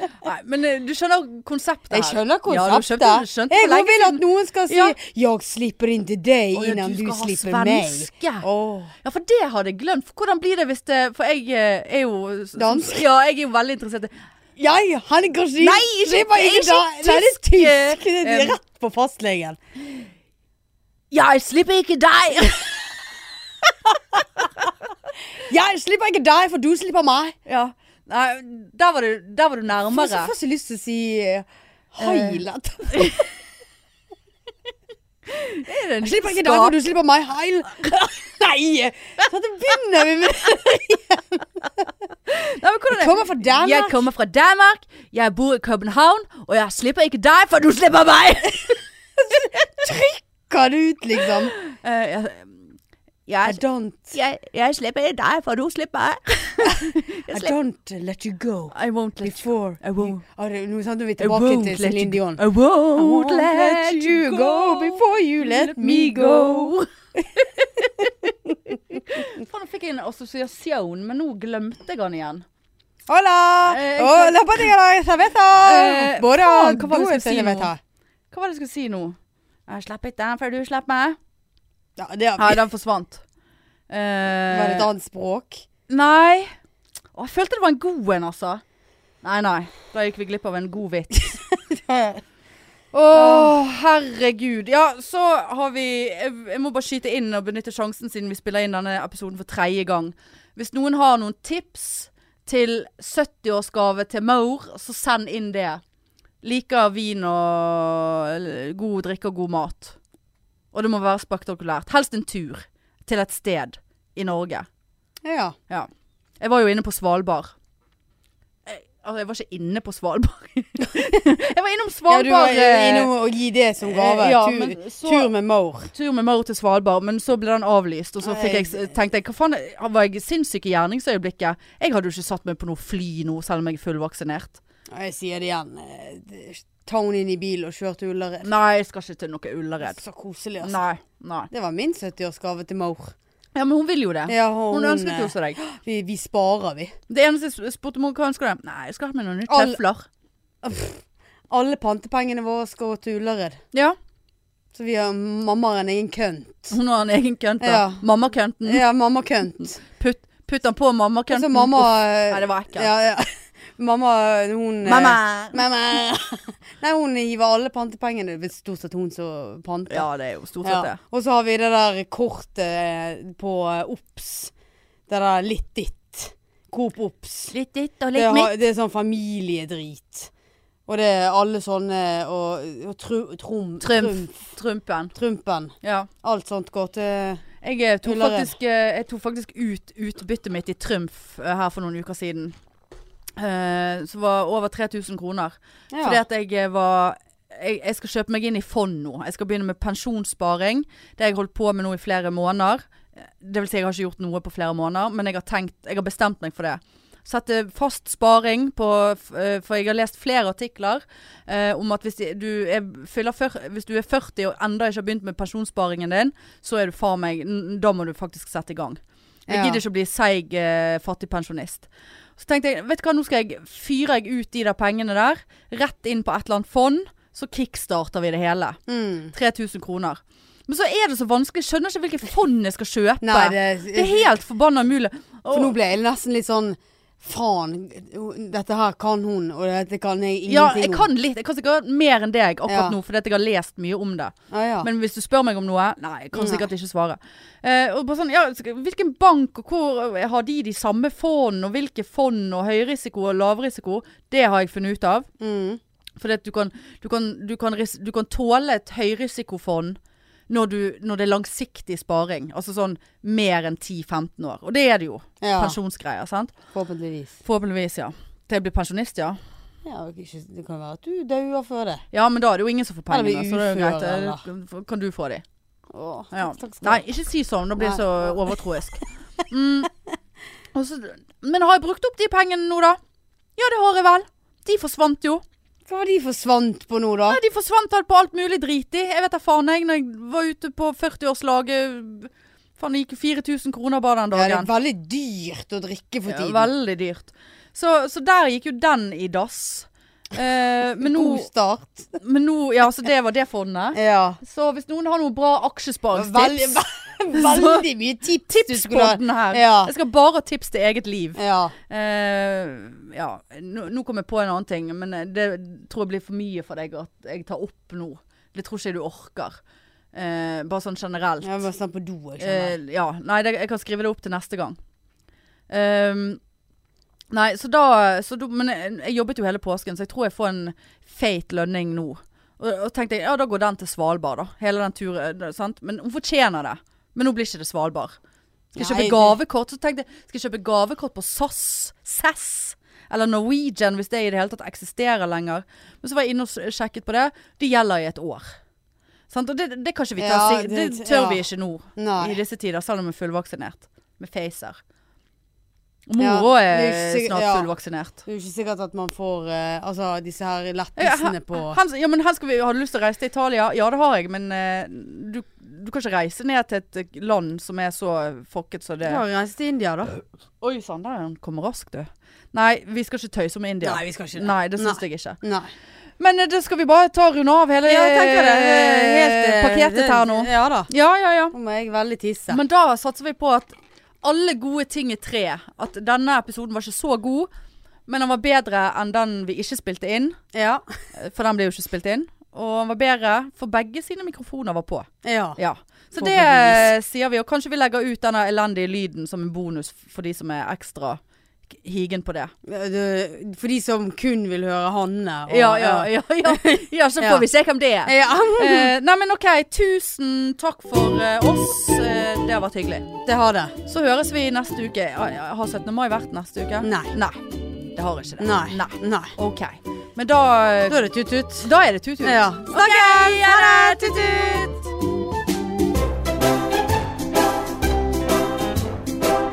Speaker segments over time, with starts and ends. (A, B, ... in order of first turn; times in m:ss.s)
0:00.2-0:05.0 A
0:01.9-0:08.9 B
0:06.5-0:08.4 A
0:09.0-0:14.1 A
0:12.5-0:13.0 B
0:14.6-0:19.6 B
0:15.6-0:18.6 A
0:21.1-0:23.0 A
0:25.3-0:27.4 B
0:27.4-0:30.3 A
0:29.8-0:33.3 B
0:32.0-0:32.4 A
0:32.9-0:33.2 A
0:35.3-0:36.8 A
0:36.0-0:41.8 B
0:42.3-0:48.8 A
0:42.9-0:44.0 B
0:49.2-0:51.6 B
0:51.2-0:52.6 A
0:53.3-0:57.5 A
0:53.4-0:54.2 B
0:56.6-1:06.7 B
0:58.7-1:00.2 A
1:01.2-1:12.4 A
1:07.8-1:08.6 B
1:13.1-1:17.8 B
1:13.7-1:14.7 A
1:15.6-1:17.7 A
1:18.3-1:21.2 A
1:22.0-1:22.6 B
1:22.4-1:23.2 A
1:23.9-1:24.9 A
1:24.5-1:25.6 B
1:25.9-1:26.5 A
1:27.1-1:28.6 A
1:29.2-1:31.4 A
1:31.3-1:32.2 B
1:32.9-1:45.8 A
1:33.1-1:33.6 B
1:46.4-1:50.0 A
1:50.7-1:54.7 A
1:55.2-1:55.6 B
1:56.4-1:57.5 A
1:58.6-2:03.1 A
2:02.1-2:05.9 B
2:03.8-2:05.3 A
2:05.9-2:14.6 A
2:08.2-2:08.9 B
2:14.9-2:18.5 B
2:18.4-2:20.0 A
2:19.8-2:20.8 B
2:20.6-2:21.5 A
2:21.5-2:23.1 B
2:23.5-2:25.6 A
2:24.3-2:27.0 B
2:27.1-2:30.1 A
2:29.5-2:29.8 B
2:30.6-2:33.6 B
2:33.7-2:34.0 A
2:34.7-2:36.8 B
2:36.7-2:38.8 A
2:37.6-2:38.0 B
2:38.6-2:39.8 B
2:39.8-2:42.9 A
2:41.3-2:50.1 B
2:44.8-2:45.6 A
2:49.9-2:51.0 A
2:50.6-2:54.5 B
2:55.1-2:57.5 B
2:57.5-2:58.6 A
2:58.1-3:00.3 B
3:00.9-3:04.5 B
3:03.8-3:05.1 A
3:05.1-3:07.4 B
3:05.8-3:06.1 A
3:07.6-3:12.5 A
3:08.0-3:08.5 B
3:13.4-3:48.8 A
3:15.9-3:16.2 B
3:39.5-3:39.8 B
3:48.9-3:49.3 B
3:49.3-3:55.8 A
3:53.2-3:54.3 B
3:55.5-4:01.1 B
4:00.5-4:15.3 A
4:02.6-4:03.0 B
4:04.5-4:04.9 B
4:06.3-4:06.7 B
4:15.4-4:15.8 B
4:16.2-4:20.0 A
4:20.5-4:26.5 A
4:25.4-4:25.8 B
4:26.7-4:27.4 B
4:27.4-4:29.4 A
4:29.8-4:32.0 B
4:32.1-4:35.4 A
4:33.1-4:34.4 B
4:35.9-4:37.0 B
4:36.3-4:39.9 A
4:37.8-4:38.6 B
4:40.7-4:43.0 A
4:43.6-4:45.4 A
4:45.9-4:47.4 B
4:47.3-4:54.7 A
4:54.3-4:56.7 B
4:56.3-5:01.5 A
5:01.0-5:02.2 B
5:02.2-5:07.8 A
5:03.9-5:04.4 B
5:06.1-5:09.9 B
5:08.5-5:19.6 A
5:11.4-5:11.7 B
5:20.1-5:21.6 A
5:21.4-5:22.8 B
5:22.4-5:24.8 A
5:25.7-5:26.4 A
5:27.3-5:38.2 A
5:38.7-5:39.4 B
5:38.8-5:48.6 A
5:49.3-5:54.8 A
5:50.2-5:51.4 B
5:52.0-5:52.4 B
5:56.1-5:58.2 A
5:56.2-5:57.7 B
5:58.2-6:01.8 B
6:01.0-6:09.2 A
6:09.0-6:10.2 B
6:10.6-6:15.4 A
6:13.8-6:15.7 B
6:16.2-6:21.5 A
6:17.8-6:20.9 B
6:21.5-6:22.6 B
6:22.5-6:27.5 A
6:28.1-6:30.4 A
6:30.5-6:31.0 B
6:31.1-6:41.2 A
6:35.2-6:35.6 B
6:36.2-6:36.9 B
6:41.7-6:42.5 A
6:42.6-6:47.4 B
6:45.5-6:53.2 A
6:48.0-6:48.9 B
6:53.2-6:53.8 B
6:53.8-6:57.4 A
6:56.8-6:57.1 B
6:57.9-7:04.8 A
6:58.4-6:59.3 B
7:00.9-7:04.8 B